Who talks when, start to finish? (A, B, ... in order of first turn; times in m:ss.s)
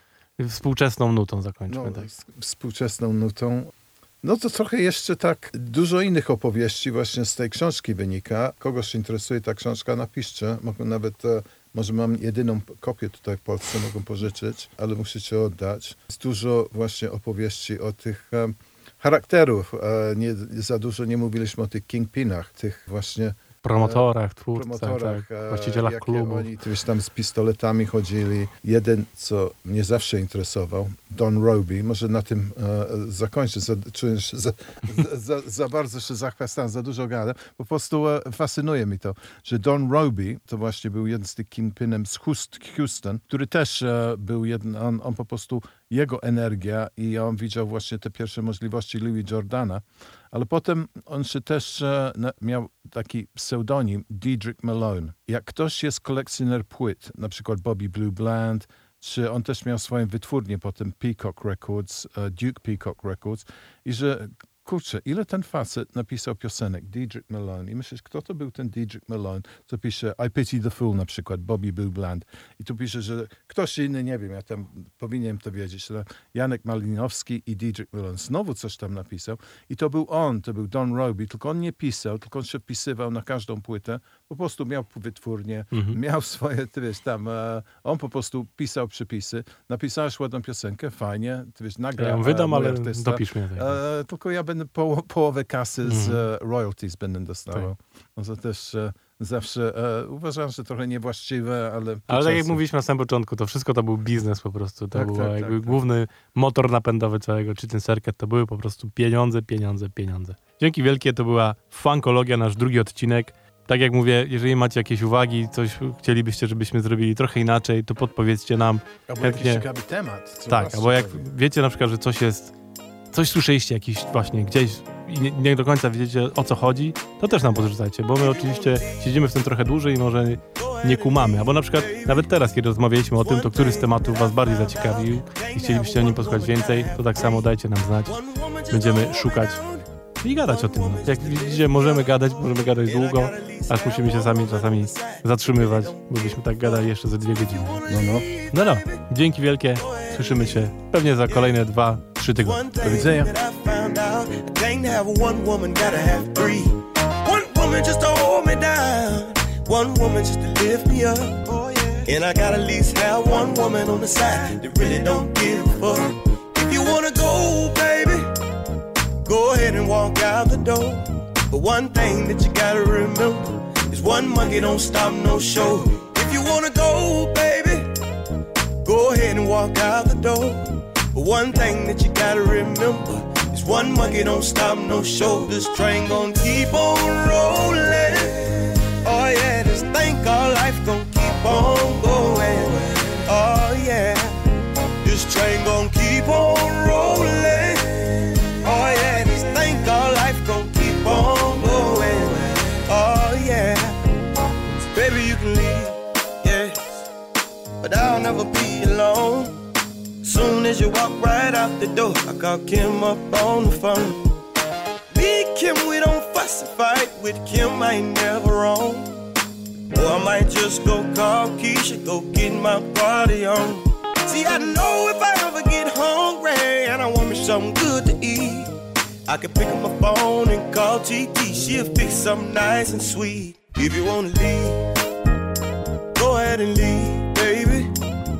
0:00.4-0:02.1 A
0:01.7-1:42.6 B
0:23.6-0:26.5 A
1:25.7-1:26.0 A
1:32.0-1:33.8 A
1:35.8-1:36.2 A
1:42.1-1:59.6 A
1:44.9-1:45.8 B
1:59.1-2:01.3 B
2:00.5-2:02.5 A
2:03.1-2:18.2 A
2:08.2-2:09.3 C
2:10.6-2:12.4 C
2:13.1-2:17.5 C
2:18.0-2:31.7 C
2:18.7-2:19.6 A
2:20.2-2:27.8 A
2:27.8-2:28.3 B
2:28.5-2:32.6 A
2:32.4-2:48.3 C
2:32.8-2:33.3 B
2:49.2-2:57.9 C
2:58.8-3:14.3 C
3:15.0-3:24.0 C
3:24.8-3:26.8 C
3:27.8-3:29.6 C
3:30.2-3:34.3 C
3:35.1-3:39.2 C
3:39.9-3:48.7 C
3:49.2-3:54.9 C
3:56.1-3:57.9 C